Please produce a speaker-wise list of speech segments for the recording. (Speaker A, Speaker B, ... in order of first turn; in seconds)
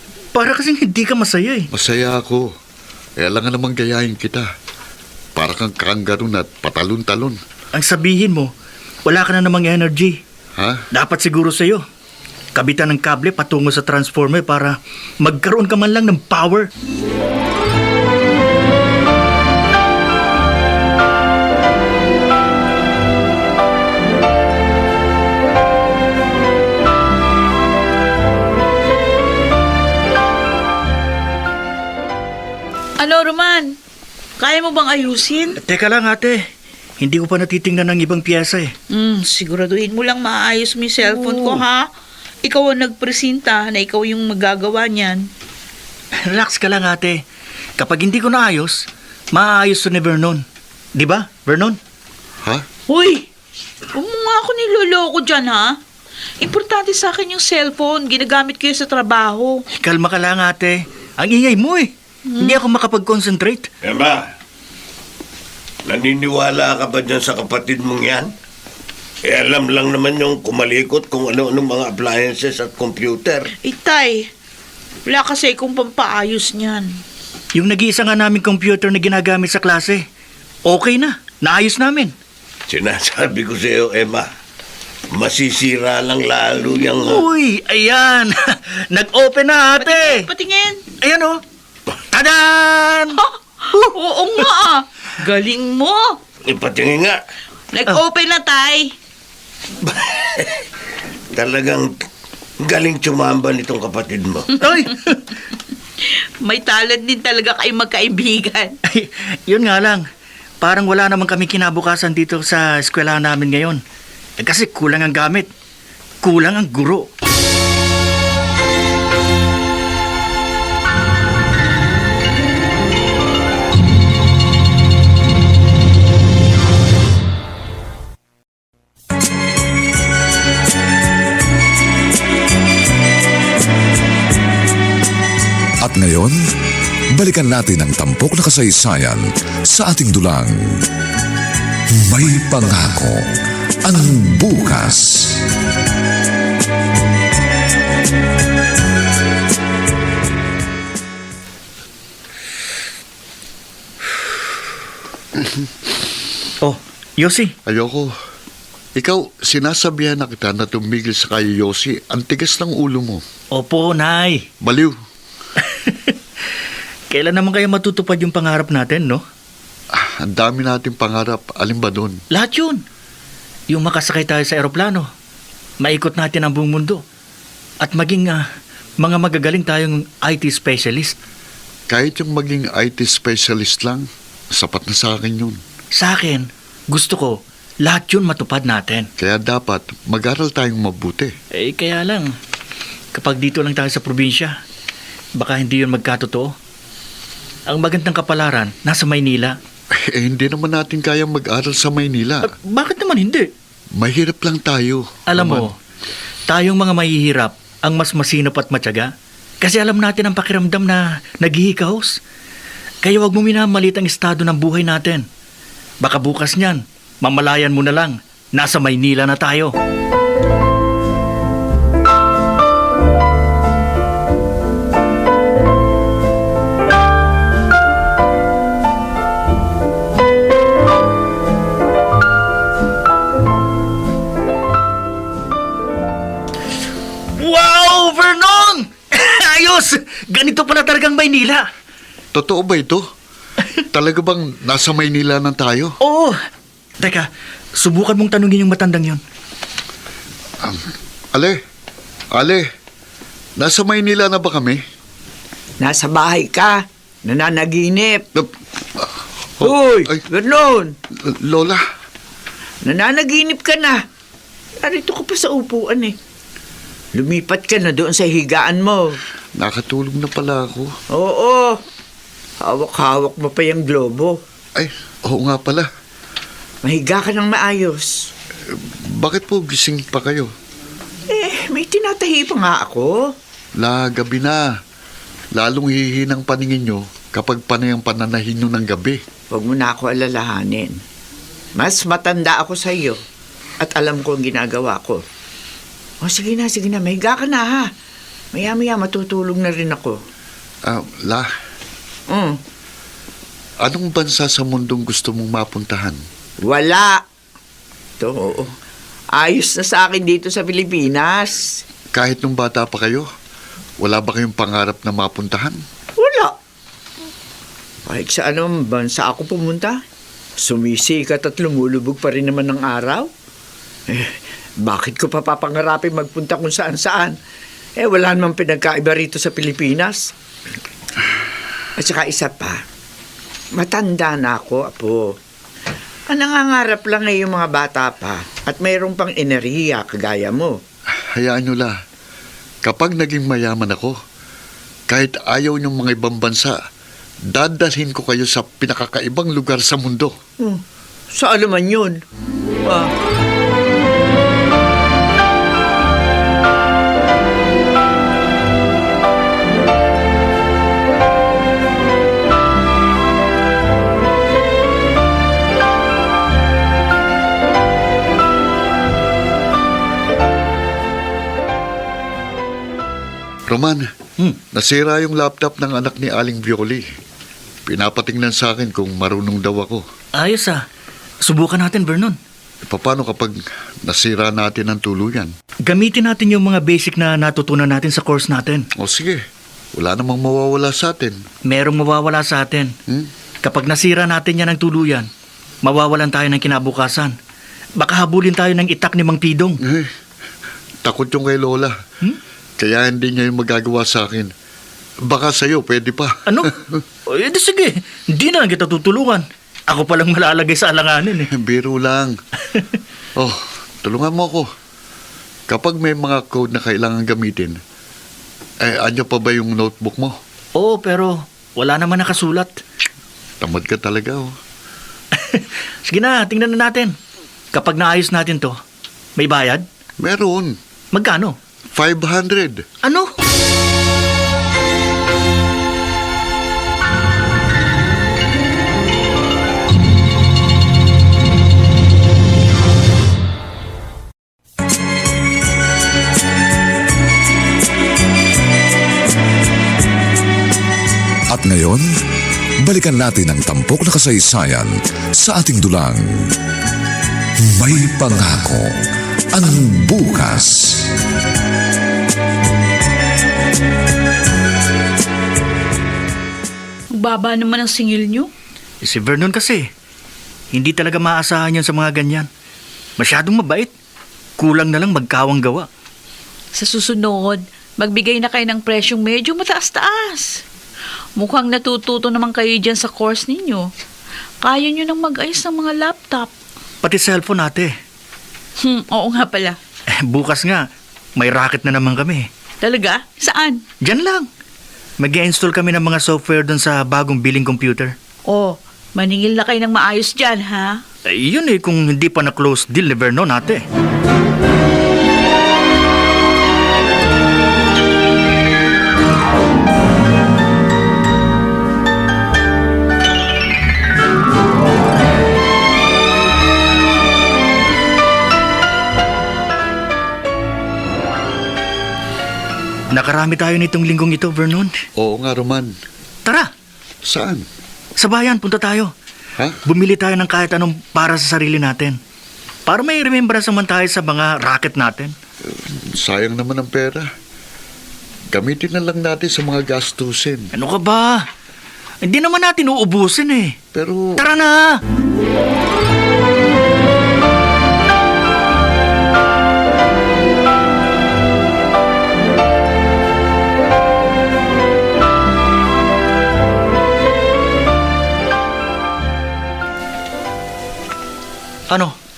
Speaker A: 0.3-1.7, 7.7-8.5, 9.1-10.2, 10.9-11.8, 12.6-16.7, 35.6-36.4, 37.0-38.7, 41.0-41.6, 46.2-47.2, 47.8-51.8, 59.8-63.7, 77.5-80.0, 80.7-82.1, 87.0-90.3, 91.0-91.4, 92.1-93.2, 104.6-105.4, 108.9-110.0, 110.6-113.8, 114.4-115.5, 116.2-117.1, 156.6-157.5, 163.5-164.5, 165.6-166.2, 167.1-169.2, 172.3-172.8, 173.7-175.1, 175.8-177.0, 177.8-178.4, 179.0-181.2, 185.9-189.1, 191.5-192.3, 193.1-194.6, 195.4-196.5, 197.7-199.6, 202.4-203.5, 205.3-205.8, 206.5-212.2, 213.0-215.3, 216.0-219.8, 237.3-241.7, 246.0-246.4, 247.0-249.2, 380.4-380.8, 381.4-382.4, 385.9-388.9, 391.7-392.9, 393.6-395.3, 395.8-397.4, 398.0-399.8, 406.5-411.5, 420.8-422.8, 425.4-427.1, 427.7-428.8, 429.4-429.9, 431.1-431.6, 433.0-433.3, 469.0-469.9, 470.7-472.5, 473.2-473.9, 474.6-475.9, 487.0-487.9, 490.2-490.9, 491.4-492.5, 494.0-494.5, 495.2-498.1, 501.3-503.9, 523.1-524.9, 526.5-526.7, 528.2-529.1, 529.9-532.2, 532.9-535.4, 540.7-541.5, 542.2-543.8, 544.4-545.0, 561.9-562.1
Speaker B: 1.7-2.5, 3.2-4.5, 5.3-7.4, 157.7-158.1, 159.0-163.2, 164.6-165.0, 169.9-172.2, 181.9-185.6, 189.2-191.3, 200.0-202.5, 203.9-205.7, 242.3-243.1, 243.9-245.9, 252.3-252.7, 253.6-254.8, 259.6-260.2, 261.2-261.8, 269.6-270.9, 274.8-275.9, 278.7-280.5, 283.8-284.7, 285.6-289.2, 300.9-301.5, 303.8-306.2, 312.1-313.3, 314.0-315.8, 341.4-341.9, 342.8-344.2, 345.1-346.8, 347.5-350.3, 373.7-374.1, 374.7-377.1, 377.9-380.0, 382.9-385.5, 389.0-389.4, 390.0-391.4, 399.8-400.1, 401.1-402.0, 402.8-404.5, 405.3-407.0, 411.5-412.4, 413.4-414.7, 415.7-417.8, 418.8-420.4, 423.6-424.5, 430.2-430.8, 431.9-432.8, 525.2-526.0, 527.2-527.7, 535.7-537.3, 538.5-540.7, 543.9-544.4
Speaker C: 33.0-33.8, 34.4-35.6, 38.9-41.9, 42.4-45.3, 52.9-53.3, 53.9-55.8, 56.4-59.6, 62.3-62.6, 73.6-74.3, 75.1-77.0, 89.8-90.8, 93.2-96.2, 97.7-98.9, 106.1-108.8, 467.1-468.5, 476.8-480.6, 481.4-483.9, 484.6-486.5, 488.8-489.8, 492.8-493.8, 498.5-501.0
Speaker D: 63.8-64.3, 65.9-68.3, 69.2-73.5, 82.7-84.3, 85.1-87.2, 96.5-97.2, 101.3-102.0, 102.6-104.5
Speaker E: 135.8-136.4, 137.2-140.5, 142.0-143.2, 143.8-145.4, 451.5-452.1, 452.8-456.5, 457.6-458.9, 459.5-461.1
Speaker F: 255.8-258.3, 259.6-260.9, 262.8-264.0, 264.8-266.1, 267.1-269.2, 271.1-271.8, 272.6-274.4, 276.8-278.1, 281.3-283.2, 289.5-291.0, 291.8-293.2, 293.8-295.2, 296.2-297.9, 298.5-300.2, 302.3-302.6, 306.6-307.2, 308.2-308.7, 309.3-311.8, 316.2-316.5, 318.1-320.0, 320.6-323.3, 324.1-327.4, 328.0-330.2, 332.0-332.8, 333.8-335.3, 336.3-340.8, 351.3-352.2, 352.8-353.1